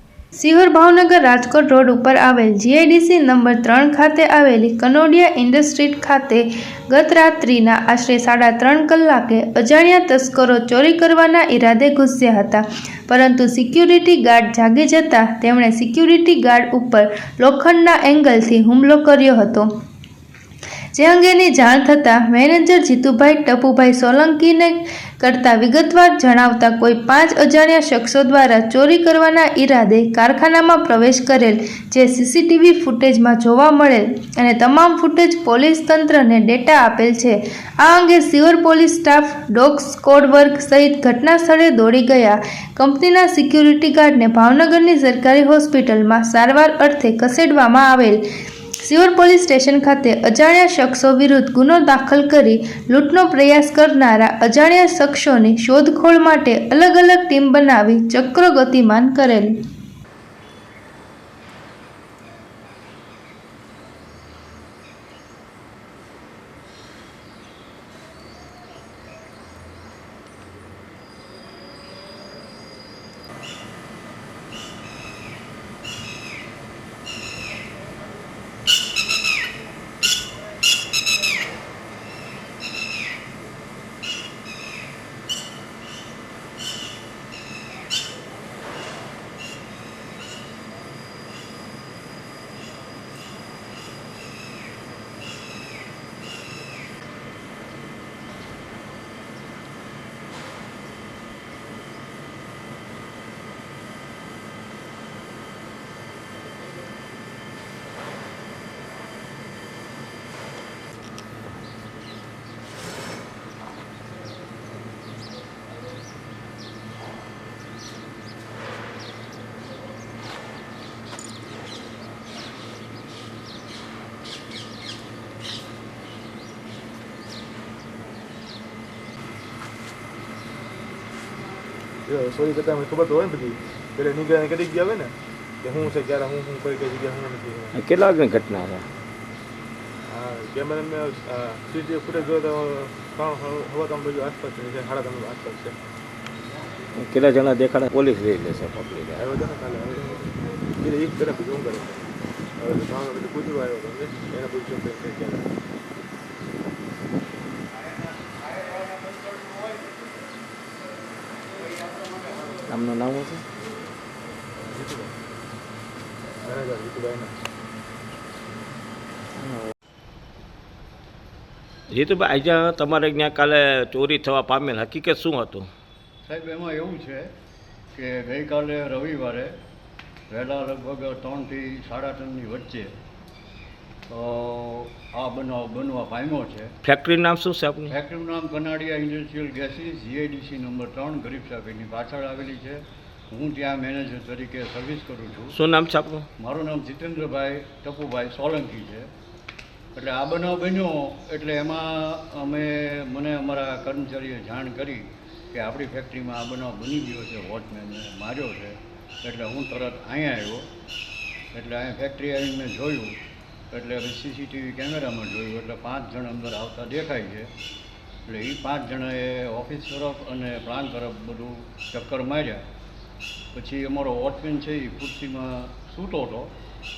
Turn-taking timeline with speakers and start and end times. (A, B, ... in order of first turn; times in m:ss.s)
0:00.4-0:19.7 A
0:20.9-0:48.2 A
0:48.8-0:59.5 A
2:12.0-2:17.8 B
2:17.7-2:18.8 C
2:20.1-2:25.8 B
2:27.0-2:29.2 C
2:29.1-2:35.5 B
2:42.7-2:43.4 C
2:44.6-2:45.1 B
2:46.4-2:47.4 B
2:51.9-2:55.7 C
2:56.2-2:57.3 D
2:57.9-2:59.5 D
3:00.3-3:02.9 D
3:04.1-3:06.7 D
3:06.8-3:07.9 C
3:07.9-3:15.5 D
3:15.5-3:16.3 C
3:16.4-3:19.1 D
3:19.9-3:30.7 D
3:31.5-3:33.1 D
3:33.7-3:37.5 D
3:38.2-3:42.6 D
3:43.5-3:46.5 D